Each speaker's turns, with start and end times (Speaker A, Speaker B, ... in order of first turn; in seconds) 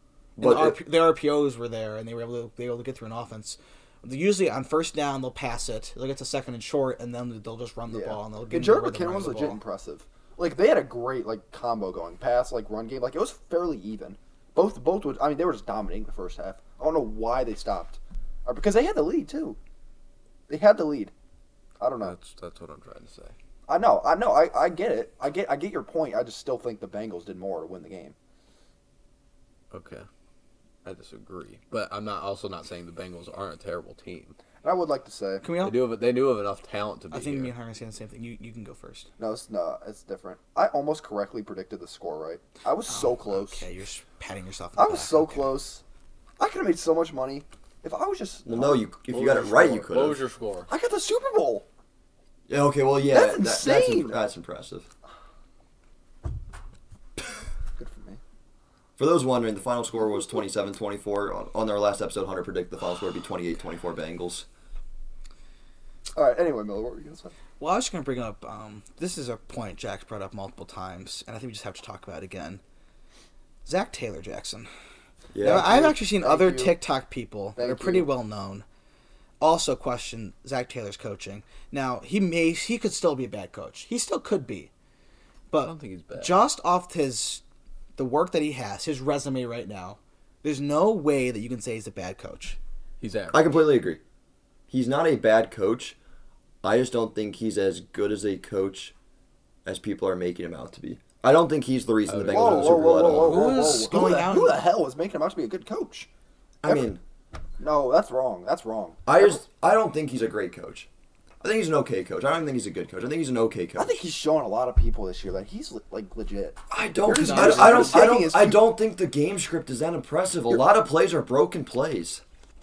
Speaker A: 0.3-0.8, 48.5-50.2, 52.5-54.9, 59.0-64.5, 75.3-75.8, 93.3-94.0, 94.7-96.0, 96.6-98.9, 99.6-103.5, 106.6-107.0, 109.0-110.9, 111.4-114.0, 116.7-122.2
Speaker B: 0.4-9.6, 35.4-35.8, 37.1-39.1, 42.9-45.6, 67.6-72.6, 73.6-74.7, 75.4-78.6, 79.4-84.7, 85.5-87.4, 88.0-92.6, 103.0-104.7, 117.1-118.1
Speaker C: 7.9-19.6, 20.5-21.1, 21.8-22.1, 23.7-28.1, 34.6-35.4, 39.2-43.6, 44.8-45.8, 46.4-48.9, 50.7-51.6, 53.1-54.2, 57.8-58.2, 66.1-67.3, 75.4-76.8, 77.6-78.1, 102.3-106.1, 106.6-106.9, 107.6-109.4, 113.8-118.7
Speaker D: 22.0-23.3, 29.7-30.1, 30.8-34.4, 35.5-37.5, 49.1-50.7, 85.6-86.5, 93.0-93.6, 102.0-103.8